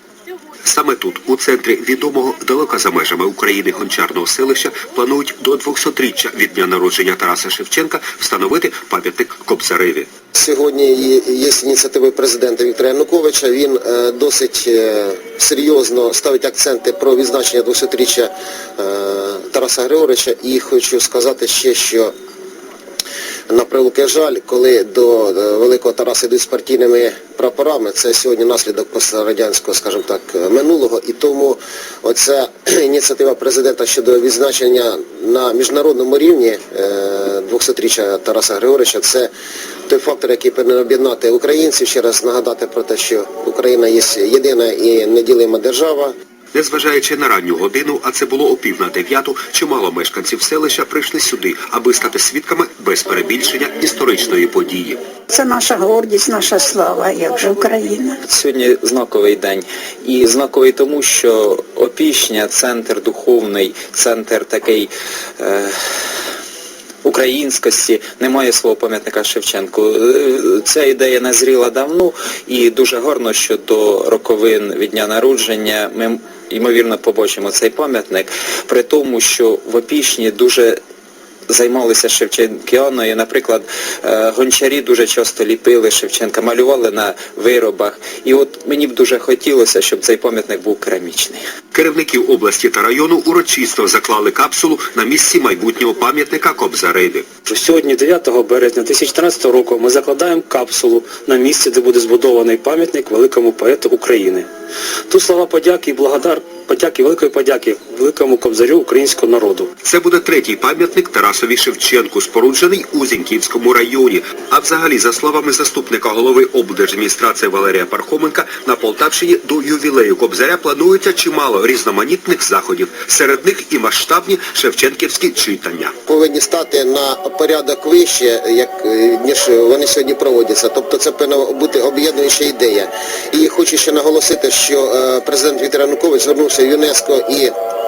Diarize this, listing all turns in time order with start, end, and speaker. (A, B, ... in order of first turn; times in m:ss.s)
0:00.6-0:10.1 A
0:10.3-0:22.1 B
0:23.5-0:39.3 B
0:39.9-0:46.1 B
0:46.5-0:55.0 A
0:55.3-0:58.1 C
0:58.2-1:06.0 D
1:07.0-1:20.8 D
1:21.5-1:31.4 D
1:31.7-1:37.2 A
1:37.4-1:44.5 E
1:45.1-1:49.7 E
1:49.8-2:05.9 A
2:06.1-2:17.5 B